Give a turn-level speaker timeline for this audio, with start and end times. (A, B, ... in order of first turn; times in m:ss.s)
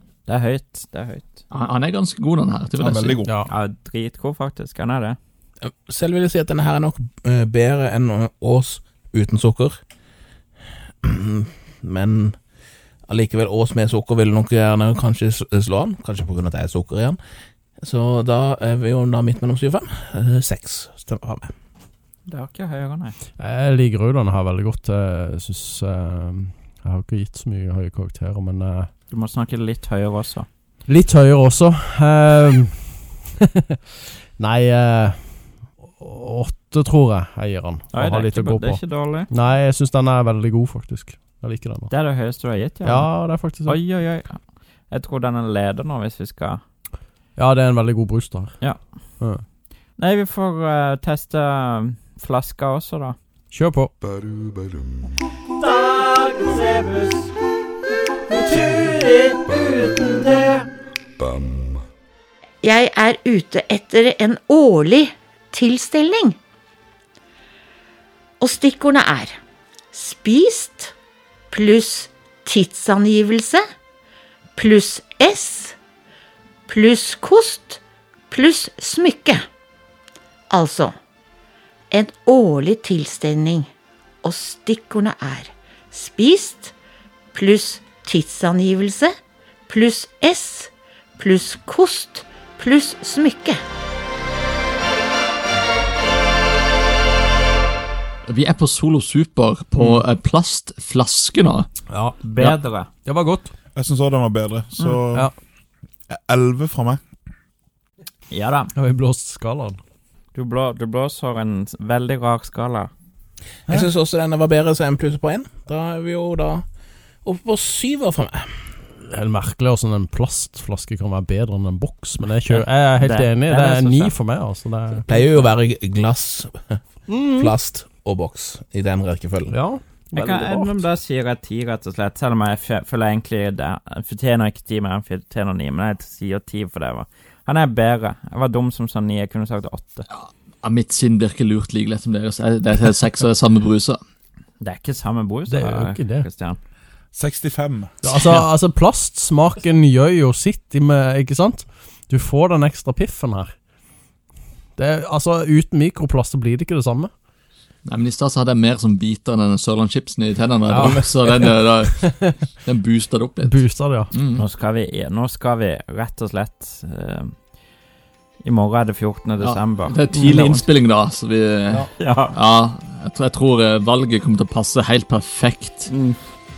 0:00.3-0:01.4 A
0:01.5-0:03.2 B
0:02.8-0:03.4 C
0:03.2-0:03.5 D
0:03.5-0:05.2 A
0:05.6-0:09.8 E
0:11.0-0:12.4 E
0:13.1-0:17.2 E
0:17.8-0:21.5 E
0:22.3-0:23.2 A
0:23.4-0:28.9 D
0:29.1-0:30.5 A
0:30.9-0:33.8 D
0:34.4-0:41.9 D
0:37.9-0:39.3 A
0:41.9-0:46.6 A
0:42.8-0:43.8 D
0:47.4-0:49.4 D
0:50.0-0:53.2 A
0:53.5-0:54.2 D
0:55.6-0:57.4 A
0:58.3-1:00.7 A
1:02.6-1:06.4 F
1:08.4-1:09.4 F
1:09.9-1:10.9 F
1:11.5-1:13.6 F
1:14.6-1:15.8 F
1:16.7-1:19.4 F
1:20.5-1:20.9 F
1:21.9-1:23.7 F
1:24.2-1:26.7 F
1:27.3-1:29.1 F
1:29.7-1:33.6 F
1:38.3-1:41.7 B
1:41.9-1:42.2 D
1:42.2-1:42.9 A
1:43.0-1:43.5 D
1:43.7-1:45.3 C
1:46.1-1:47.0 C
1:48.3-1:48.7 A
1:48.8-1:49.8 D
1:50.3-1:52.9 A
1:53.7-1:56.6 E
1:57.2-1:58.5 E
1:59.1-2:05.0 D
2:02.5-2:04.1 A
2:05.0-2:06.8 E
2:07.1-2:07.5 D
2:07.4-2:09.6 E
2:09.5-2:10.8 D
2:10.2-2:20.1 A
2:20.1-2:24.0 B
2:24.6-2:26.6 A
2:25.5-2:26.3 D
2:27.1-2:27.9 C
2:28.0-2:33.5 D
2:34.8-2:37.1 D
2:37.8-2:44.4 B
2:40.7-2:42.4 D
2:43.4-2:44.1 D
2:44.4-2:47.4 A
2:48.4-2:50.6 A
2:49.4-2:55.9 B
2:52.0-2:52.4 A
2:55.9-2:56.2 A